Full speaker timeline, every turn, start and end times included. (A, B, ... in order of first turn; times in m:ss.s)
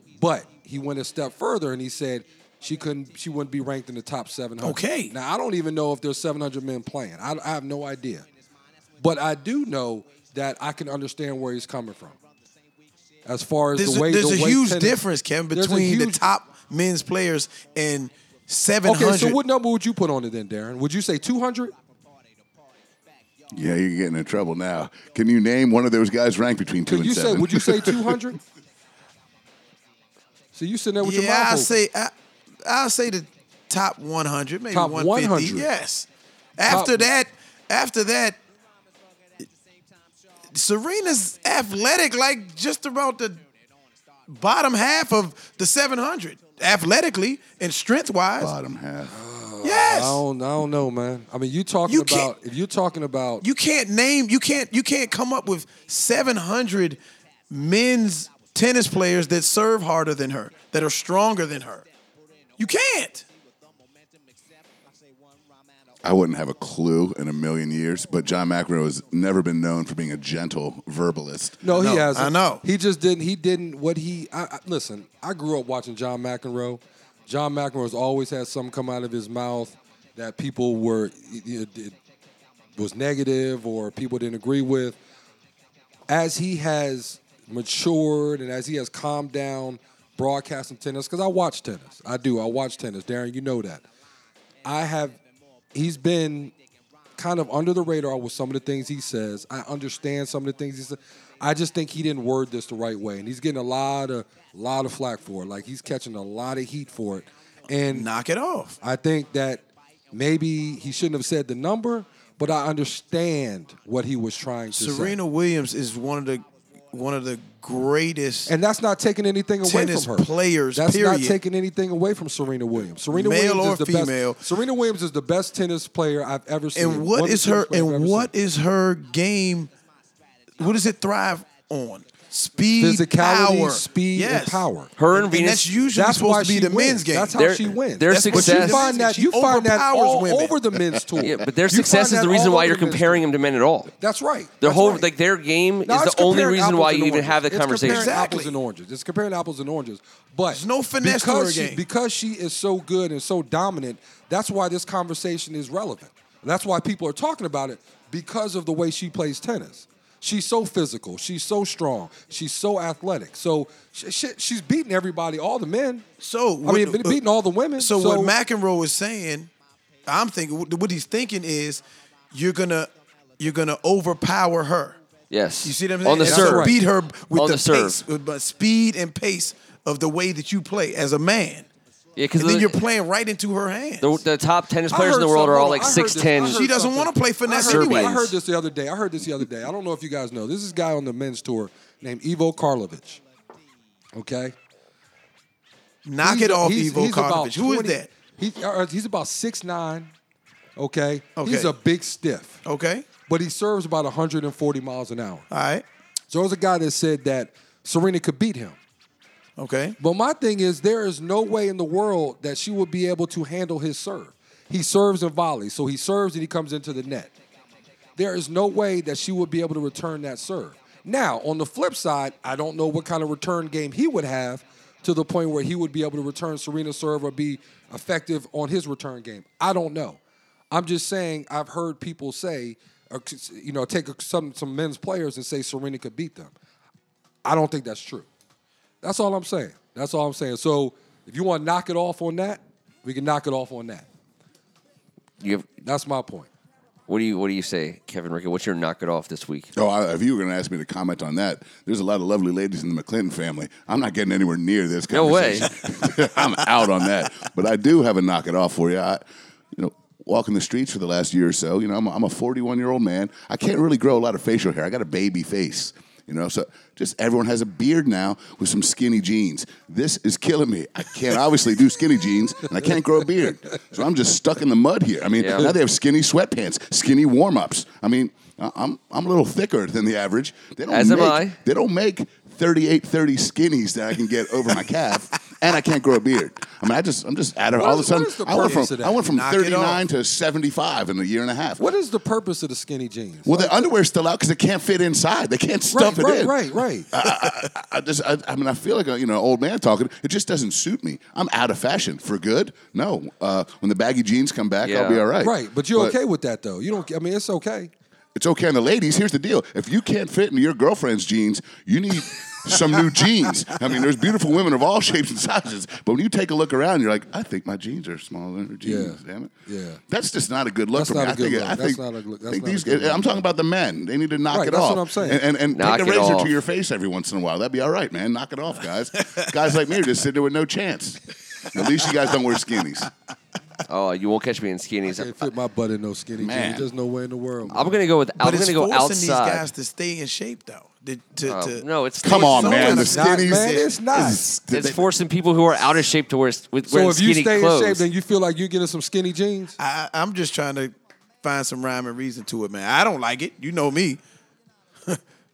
0:00.2-0:08.3 A
0:04.6-0:05.2 B
0:09.0-0:12.2 A
0:13.2-0:15.0 A
0:13.8-0:19.4 B
0:15.5-0:16.3 A
0:18.8-0:21.7 A
0:23.5-0:28.2 C
0:26.9-0:28.4 A
0:30.5-0:31.7 A
0:31.0-0:38.4 B
0:34.7-0:35.7 A
0:36.7-0:37.1 A
0:40.5-0:43.4 B
0:44.3-0:48.5 B
0:48.4-0:49.1 C
0:49.1-0:53.4 A
0:49.6-0:50.2 B
0:51.9-0:52.3 B
0:53.4-0:57.0 B
0:57.5-1:01.9 B
1:02.6-1:03.3 B
1:06.0-1:11.6 C
1:11.6-1:22.0 A
1:11.7-1:12.6 B
1:22.8-1:25.0 A
1:26.1-1:33.9 A
1:34.6-1:35.2 A
1:35.7-1:36.5 A
1:37.2-1:48.1 A
1:47.9-1:48.8 B
1:48.8-1:55.2 A
1:54.8-1:58.5 B
1:58.5-2:08.3 A
1:59.6-2:01.4 B
2:03.1-2:04.4 B
2:06.8-2:09.7 B
2:10.6-2:17.4 B
2:12.8-2:14.9 A
2:15.0-2:15.7 D
2:15.9-2:23.2 A
2:17.4-2:18.9 D
2:18.0-2:20.6 B
2:21.2-2:23.9 D
2:24.0-2:25.1 A
2:24.6-2:28.2 D
2:25.8-2:46.0 A
2:27.8-2:28.5 B
2:30.5-2:31.8 B
2:46.2-2:47.2 B
2:46.6-2:48.3 A
2:47.8-2:49.5 B
2:50.1-2:55.0 B
2:55.3-2:58.0 D
2:55.6-3:01.7 B
2:56.2-2:56.8 A
3:02.2-3:02.8 D
3:02.4-3:04.2 B
3:04.0-3:06.6 D
3:04.9-3:13.2 A
3:06.4-3:08.3 B
3:07.6-3:08.2 D
3:14.2-3:14.6 A
3:16.0-3:18.1 B
3:16.2-3:20.1 A
3:20.8-3:22.6 A
3:21.4-3:21.7 B
3:22.6-3:23.1 B
3:23.3-3:25.4 A
3:25.5-3:25.8 B
3:26.3-3:28.8 A
3:29.6-3:30.0 B
3:30.0-3:37.3 A
3:38.2-3:50.2 A
3:50.7-3:56.5 A
3:57.4-3:58.3 A
3:59.0-4:04.1 A
4:05.4-4:05.7 D
4:05.8-4:06.5 A
4:07.1-4:09.7 D
4:09.8-4:19.2 C
4:15.1-4:15.8 D
4:19.7-4:51.9 C
4:35.4-4:35.7 D
4:40.9-4:41.6 D
4:47.7-4:49.2 A
4:49.3-4:50.0 B
4:51.8-4:53.9 A
4:53.5-5:06.2 C
4:55.9-4:57.1 A
5:04.8-5:05.3 D
5:05.4-5:07.9 A
5:08.4-5:19.5 C
5:18.8-5:20.0 A
5:20.1-5:33.1 C
5:20.9-5:23.4 A
5:24.5-5:25.4 A
5:25.7-5:26.5 D
5:33.9-5:35.5 D
5:35.1-5:38.0 A
5:36.4-5:36.9 C
5:37.7-5:39.7 D
5:38.4-5:44.4 B
5:41.5-5:43.0 D
5:42.2-5:45.0 C
5:42.8-5:44.5 A
5:44.7-5:48.0 D
5:46.9-5:49.8 A
5:49.8-5:54.2 B